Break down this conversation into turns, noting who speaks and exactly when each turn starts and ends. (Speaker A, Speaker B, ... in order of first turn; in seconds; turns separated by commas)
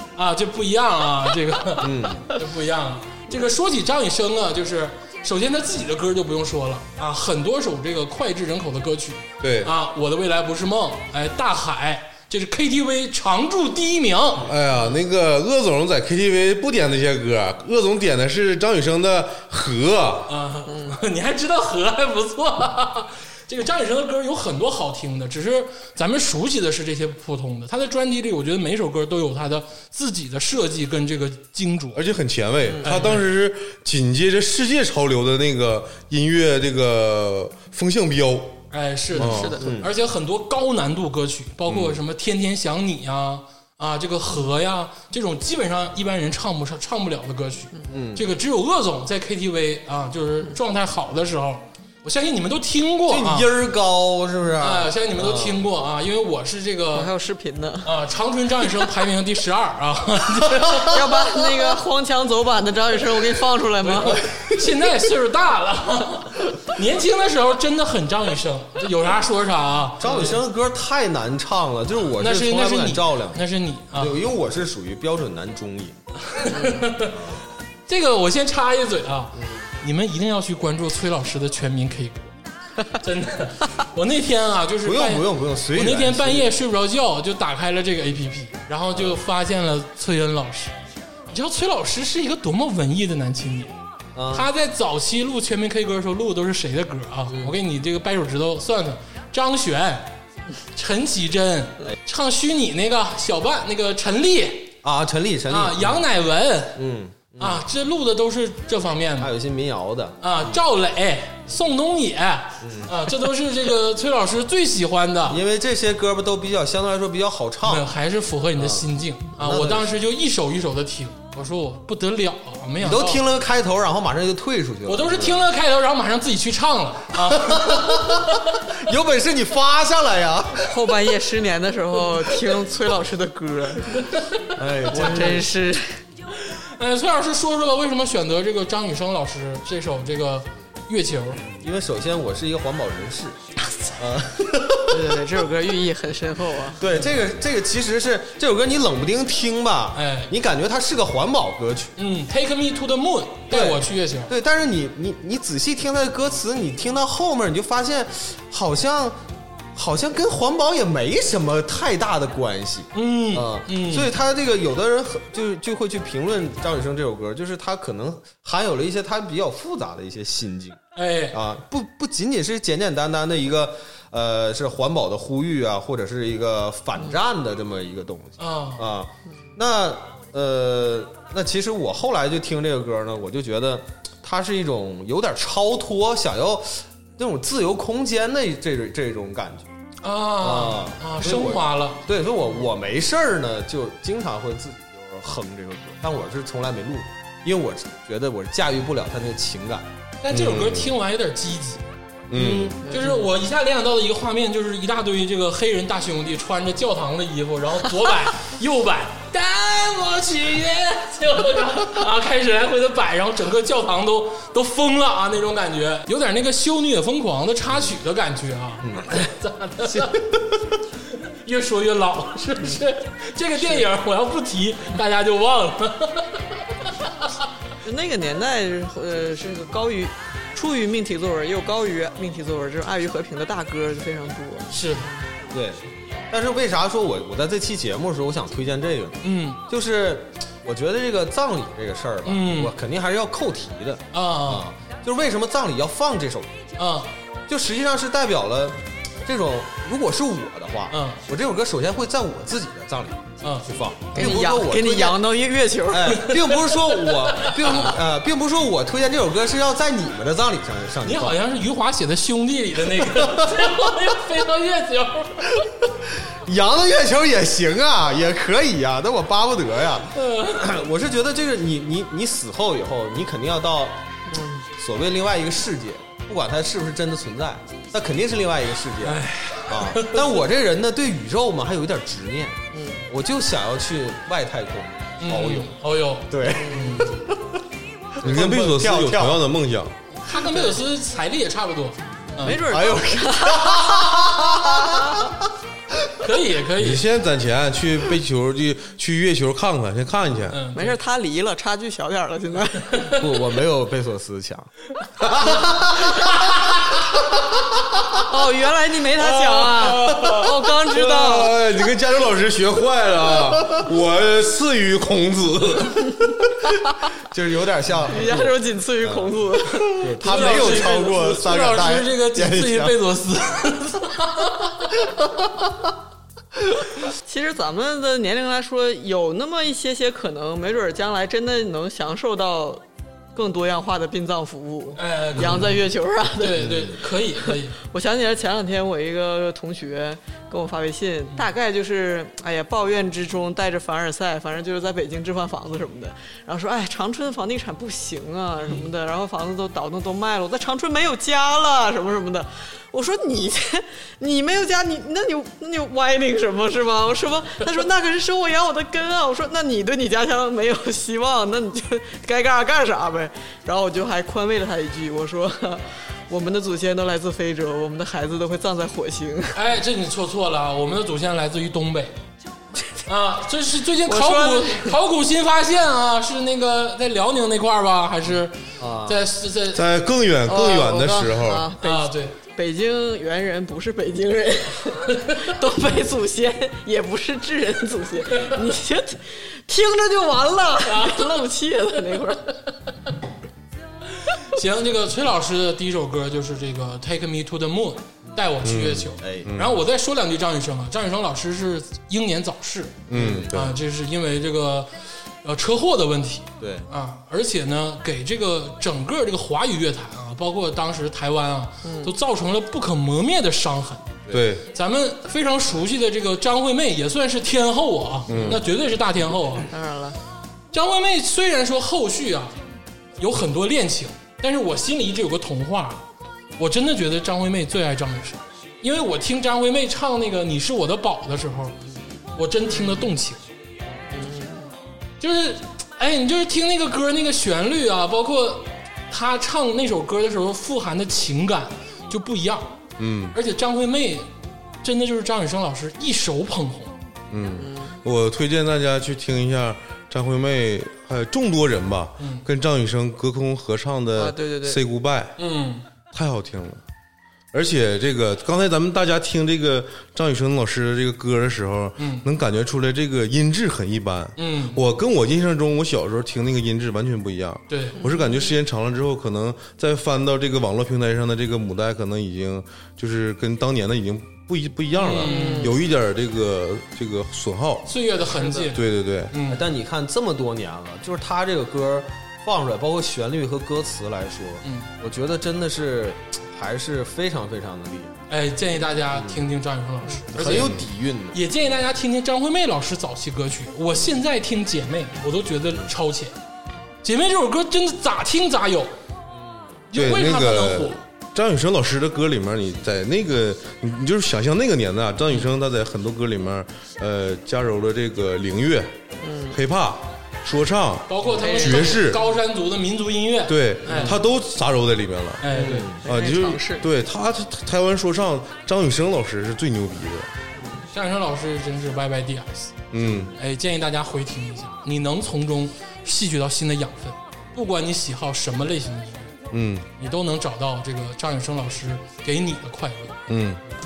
Speaker A: 0.2-14.5, Speaker B: 1.8-2.3, Speaker C: 9.4-9.7, Speaker C: 14.4-20.3, Speaker A: 20.3-32.0, Speaker D: 20.7-20.9, Speaker C: 31.9-38.6, Speaker A: 32.8-33.3, Speaker A: 38.7-53.5, Speaker C: 39.1-39.6, Speaker D: 39.2-39.6, Speaker B: 39.6-39.9, Speaker C: 41.7-42.0, Speaker B: 47.9-48.3, Speaker B: 53.1-55.6, Speaker A: 54.6-57.1, Speaker D: 56.9-57.9, Speaker A: 57.8-61.2, Speaker D: 60.7-64.4, Speaker A: 63.8-70.3, Speaker B: 70.0-76.0, Speaker D: 70.0-70.3, Speaker A: 72.2-74.2, Speaker A: 76.3-77.2, Speaker D: 76.5-76.9, Speaker B: 77.0-77.4, Speaker A: 77.9-82.3, Speaker B: 79.4-79.6, Speaker A: 82.8-90.7, Speaker B: 84.8-86.5, Speaker B: 88.9-89.2, Speaker A: 91.3-93.7, Speaker B: 94.1-94.5, Speaker A: 94.3-100.1, Speaker A: 100.7-104.7, Speaker B: 104.8-106.0, Speaker A: 105.5-106.8, Speaker B: 106.8-107.6, Speaker A: 107.4-109.3, Speaker B: 109.2-110.6, Speaker A: 110.2-115.4, Speaker B: 112.6-112.9, Speaker B: 115.3-117.9, Speaker A: 117.6-123.2, Speaker B: 118.5-119.9, Speaker B: 122.8-125.4, Speaker A: 124.8-128.4, Speaker B: 127.4-128.2, Speaker B: 128.8-130.7, Speaker D: 130.7-134.0, Speaker B: 134.6-135.5, Speaker D: 134.9-136.0, Speaker A: 136.5-141.4, Speaker B: 141.4-143.4, Speaker B: 144.0-145.1, Speaker D: 144.9-146.8, Speaker B: 146.8-151.9, Speaker A: 149.9-150.3, Speaker A: 152.0-154.3, Speaker B: 153.5-159.2, Speaker B: 159.7-170.8, Speaker A: 162.9-164.1, Speaker A: 170.9-171.4, Speaker B: 171.3-189.7, Speaker A: 178.4-178.8, Speaker A: 190.0-192.0, Speaker B: 190.4-199.9, Speaker A: 200.2-201.8, Speaker C: 200.3-200.9, Speaker C: 202.3-202.8, Speaker B: 202.4-202.6, Speaker D: 202.8-203.2, Speaker A: 202.9-220.4, Speaker B: 218.8-219.1, Speaker A: 221.1-227.3, Speaker D: 227.8-235.1, Speaker A: 234.7-235.1, Speaker B: 235.5-246.6, Speaker A: 239.2-239.6, Speaker A: 242.2-242.7, Speaker A: 244.1-244.7, Speaker A: 246.8-247.1, Speaker B: 247.5-255.2, Speaker A: 250.9-251.2, Speaker A: 253.4-254.3, Speaker D: 254.1-256.2, Speaker B: 255.9-261.4, Speaker A: 256.1-257.9, Speaker A: 261.0-265.6, Speaker B: 263.1-263.6, Speaker B: 266.4-274.0, Speaker A: 270.1-270.7, Speaker D: 274.3-274.7, Speaker B: 274.7-285.7, Speaker A: 279.0-280.4, Speaker D: 282.7-283.0, Speaker A: 285.2-287.2, Speaker B: 286.3-287.4, Speaker D: 286.6-287.0, Speaker B: 288.2-289.4, Speaker C: 288.2-289.9, Speaker A: 290.2-292.6, Speaker D: 292.4-295.2, Speaker B: 292.5-295.2, Speaker A: 296.2-297.0, Speaker C: 296.8-300.6, Speaker A: 300.5-301.0, Speaker D: 300.7-303.1, Speaker A: 302.9-303.2, Speaker B: 303.2-304.7, Speaker C: 305.2-306.1, Speaker A: 306.1-307.0, Speaker D: 308.2-311.6, Speaker C: 309.2-316.7, Speaker B: 317.3-319.2, Speaker D: 318.1-320.9, Speaker B: 320.0-322.9, Speaker A: 320.2-324.9, Speaker D: 327.2-332.8, Speaker D: 333.3-336.7, Speaker A: 334.9-335.8, Speaker A: 336.4-337.8, Speaker B: 336.6-336.9, Speaker D: 337.8-369.6, Speaker A: 369.5-372.1, Speaker A: 373.1-378.5, Speaker D: 374.0-375.0, Speaker B: 378.8-379.2, Speaker A: 379.0-379.8, Speaker C: 379.7-381.7, Speaker D: 380.4-392.6, Speaker A: 381.8-382.4, Speaker A: 390.8-391.5, Speaker A: 394.5-404.9, Speaker C: 398.6-399.8, Speaker B: 399.2-399.5, Speaker C: 403.1-403.7, Speaker B: 403.1-403.6, Speaker A: 405.4-414.1, Speaker B: 406.6-406.9, Speaker D: 411.8-412.1, Speaker C: 414.3-414.6, Speaker A: 414.7-419.7, Speaker B: 418.3-418.6, Speaker C: 418.3-418.6, Speaker D: 419.7-420.2, Speaker A: 420.7-422.5, Speaker A: 423.2-426.0, Speaker A: 426.6-431.8, Speaker A: 432.3-433.4, Speaker D: 434.1-434.7, Speaker A: 435.2-442.8, Speaker C: 443.0-443.4, Speaker A: 443.3-444.3, Speaker A: 444.8-446.9, Speaker C: 447.3-455.4, Speaker D: 447.6-448.0, Speaker A: 452.2-452.4, Speaker D: 454.1-454.8, Speaker A: 455.4-455.8, Speaker C: 456.1-456.8, Speaker C: 457.5-477.9, Speaker A: 462.0-462.2, Speaker A: 464.4-464.8, Speaker A: 467.7-468.0, Speaker D: 468.0-468.4, Speaker A: 474.9-475.7, Speaker D: 475.2-475.8, Speaker A: 477.9-479.6, Speaker D: 478.4-478.7, Speaker C: 478.7-479.3, Speaker B: 479.5-488.1, Speaker A: 484.6-484.9, Speaker A: 488.3-490.8, Speaker B: 489.1-489.4, Speaker B: 490.3-491.4, Speaker C: 490.4-490.9, Speaker A: 491.3-496.3, Speaker A: 497.0-498.9, Speaker A: 499.9-501.0, Speaker C: 499.9-508.9, Speaker D: 509.2-509.6, Speaker C: 509.5-512.2, Speaker A: 511.1-514.2, Speaker D: 511.4-511.7, Speaker C: 513.5-520.3, Speaker B: 513.9-514.2, Speaker A: 515.4-515.9, Speaker B: 515.5-516.0, Speaker D: 516.0-516.8, Speaker A: 520.9-522.8, Speaker C: 522.9-523.3, Speaker B: 523.0-523.3, Speaker A: 523.4-529.3, Speaker C: 529.5-529.9, Speaker A: 530.0-533.2, Speaker C: 533.3-533.6